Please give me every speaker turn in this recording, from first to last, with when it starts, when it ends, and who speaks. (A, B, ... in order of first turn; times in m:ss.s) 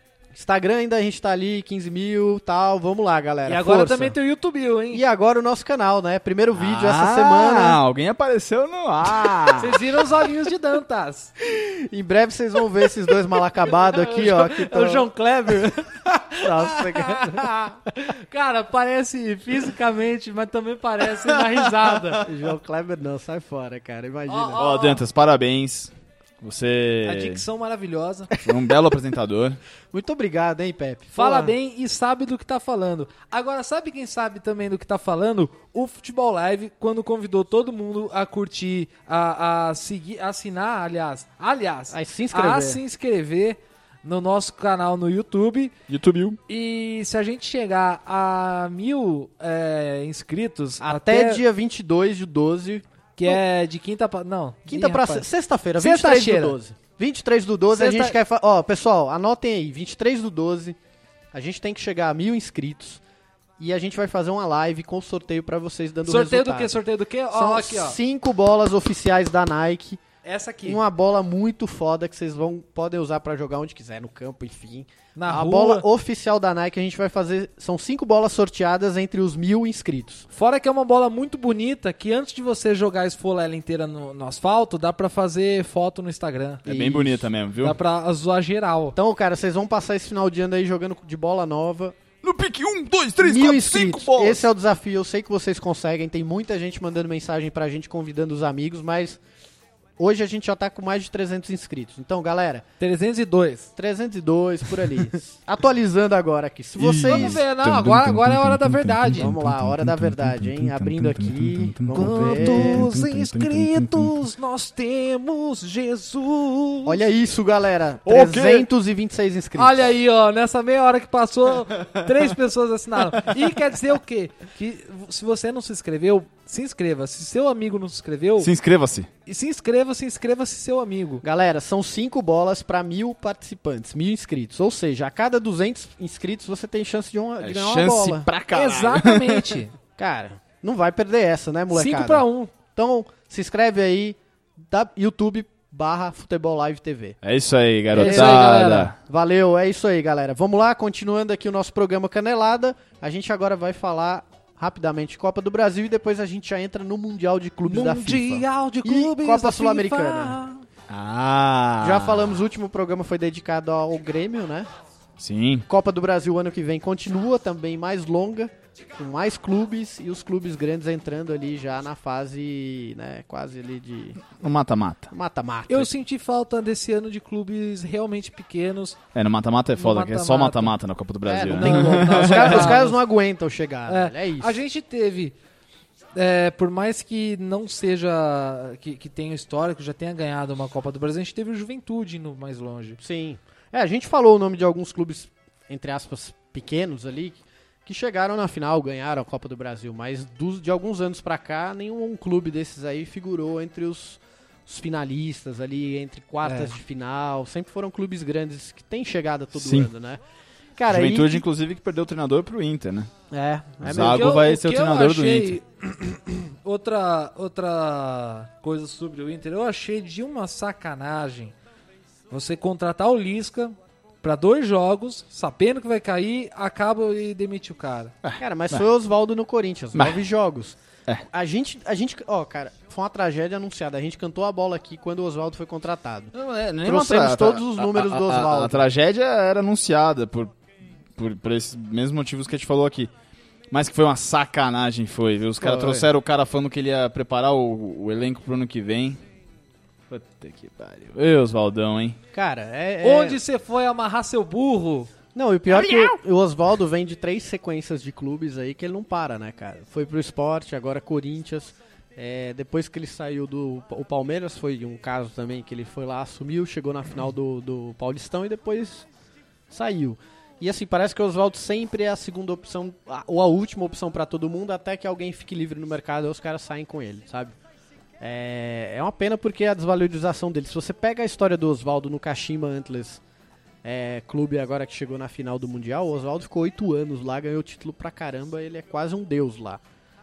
0:00.3-0:04.2 A
0:03.4-0:05.0 B
0:04.9-0:07.8 A
0:06.5-0:09.9 C
0:09.6-0:11.3 B
0:11.4-0:15.1 A
0:13.7-0:22.2 B
0:16.4-0:17.5 A
0:22.2-0:24.7 A
0:24.3-0:25.0 B
0:24.6-0:27.4 C
0:27.0-0:28.3 B
0:28.4-0:29.6 C
0:28.5-0:28.7 A
0:29.9-0:31.5 A
0:31.1-0:45.7 B
0:41.9-0:42.8 A
0:45.9-0:46.4 C
0:46.5-0:51.4 B
0:50.8-0:53.4 A
0:53.2-0:56.6 B
0:54.7-1:00.8 A
0:57.7-0:58.2 B
1:01.3-1:03.0 A
1:03.6-1:06.8 A
1:06.0-1:08.0 B
1:07.3-1:10.0 A
1:10.2-1:10.8 B
1:10.6-1:20.2 A
1:15.1-1:15.8 B
1:20.3-1:26.6 B
1:26.6-1:27.3 A
1:26.6-1:27.8 C
1:27.6-1:29.0 B
1:28.9-1:32.0 A
1:32.2-1:34.4 C
1:33.2-1:39.2 A
1:40.0-1:42.6 A
1:42.8-1:43.7 B
1:43.8-1:47.4 A
1:46.8-1:54.2 C
1:47.0-1:49.3 B
1:49.2-1:52.9 A
1:51.9-1:57.0 B
1:56.8-1:59.9 A
1:58.0-1:58.7 C
1:59.6-2:08.5 B
2:08.4-2:09.1 C
2:09.2-2:11.2 B
2:11.2-2:18.3 A
2:17.4-2:19.6 C
2:18.5-2:19.7 B
2:20.0-2:27.2 A
2:21.7-2:22.5 B
2:27.2-2:28.9 C
2:27.9-2:40.4 A
2:27.9-2:28.9 B
2:37.7-2:40.6 B
2:40.9-2:42.4 C
2:41.8-2:44.7 A
2:45.2-2:45.6 C
2:45.7-2:54.3 A
2:54.4-2:55.1 C
2:55.1-2:55.9 A
2:55.7-2:59.0 B
2:59.1-3:02.8 C
2:59.8-3:00.7 B
3:01.2-3:04.6 A
3:01.5-3:03.0 B
3:03.9-3:05.4 B
3:06.1-3:13.0 B
3:13.0-3:30.2 A
3:26.4-3:26.7 B
3:29.6-3:29.9 C
3:30.8-3:31.4 A
3:30.9-3:33.1 C
3:33.3-3:34.4 A
3:33.8-3:35.6 C
3:34.0-3:41.5 B
3:42.3-3:48.1 B
3:48.2-3:48.8 C
3:48.4-3:56.3 A
3:56.4-4:00.5 C
3:56.8-3:58.9 A
4:01.2-4:03.1 C
4:03.7-4:09.2 C
4:05.6-4:06.1 A
4:10.1-4:12.2 C
4:12.3-4:13.4 A
4:13.0-4:15.1 B
4:15.3-4:29.1 A
4:15.7-4:16.1 C
4:29.7-4:37.6 A
4:38.2-4:43.2 A
4:43.8-4:49.8 A